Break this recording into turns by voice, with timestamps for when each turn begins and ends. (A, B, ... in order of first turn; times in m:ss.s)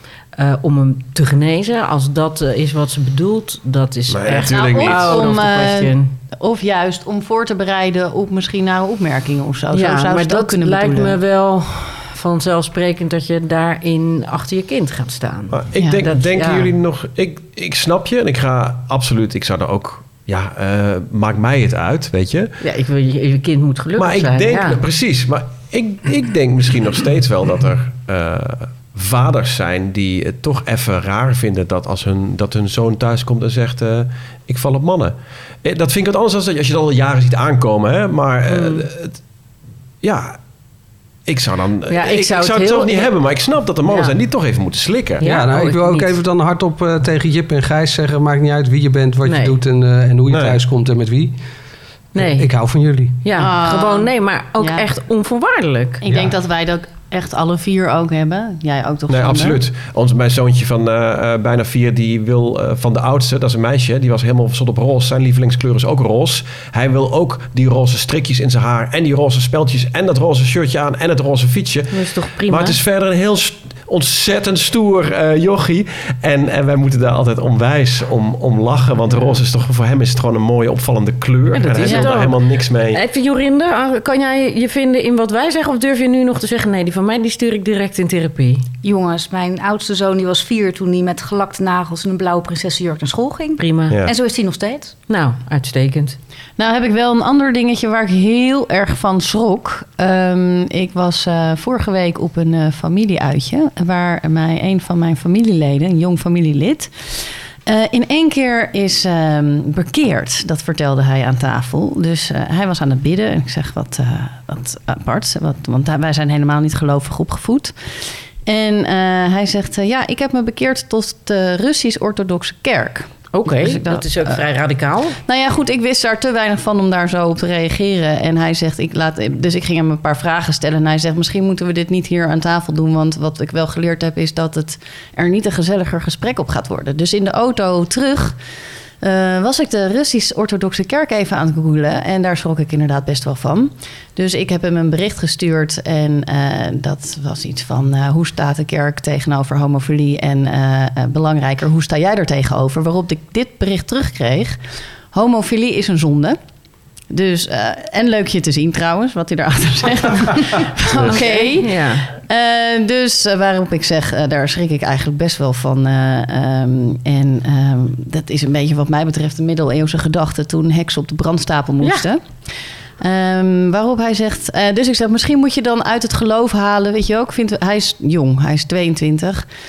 0:00.4-0:06.2 A
0:04.1-0:05.4 B
0:04.3-0:11.2 C
0:09.7-0:16.7 A
0:15.5-0:22.5 B
0:15.8-0:16.0 C
0:22.6-0:24.8 A
0:24.0-0:39.2 B
0:38.5-0:38.9 A
0:40.0-0:40.4 B
0:41.3-0:45.2 B
0:41.9-0:43.1 A
0:43.8-0:44.1 A
0:45.2-0:46.2 A
0:45.2-0:51.4 D
0:49.2-0:49.6 A
0:50.3-0:50.6 B
0:52.2-0:52.5 A
0:52.2-0:53.2 D
0:53.2-0:56.0 A
0:53.4-0:54.9 C
0:56.0-0:59.6 C
0:59.1-1:23.0 B
1:11.9-1:12.8 A
1:21.5-1:22.4 A
1:21.8-1:22.1 C
1:22.9-1:28.7 A
1:28.8-1:35.0 E
1:33.6-1:34.0 A
1:35.1-1:36.2 A
1:36.6-1:57.8 C
1:58.4-2:04.4 C
2:03.3-2:05.2 A
2:05.2-2:18.4 C
2:19.0-2:34.6 C
2:35.1-2:36.4 C
2:37.1-2:52.2 C
2:40.9-2:41.3 B
2:41.1-2:42.1 A
2:53.0-2:59.5 C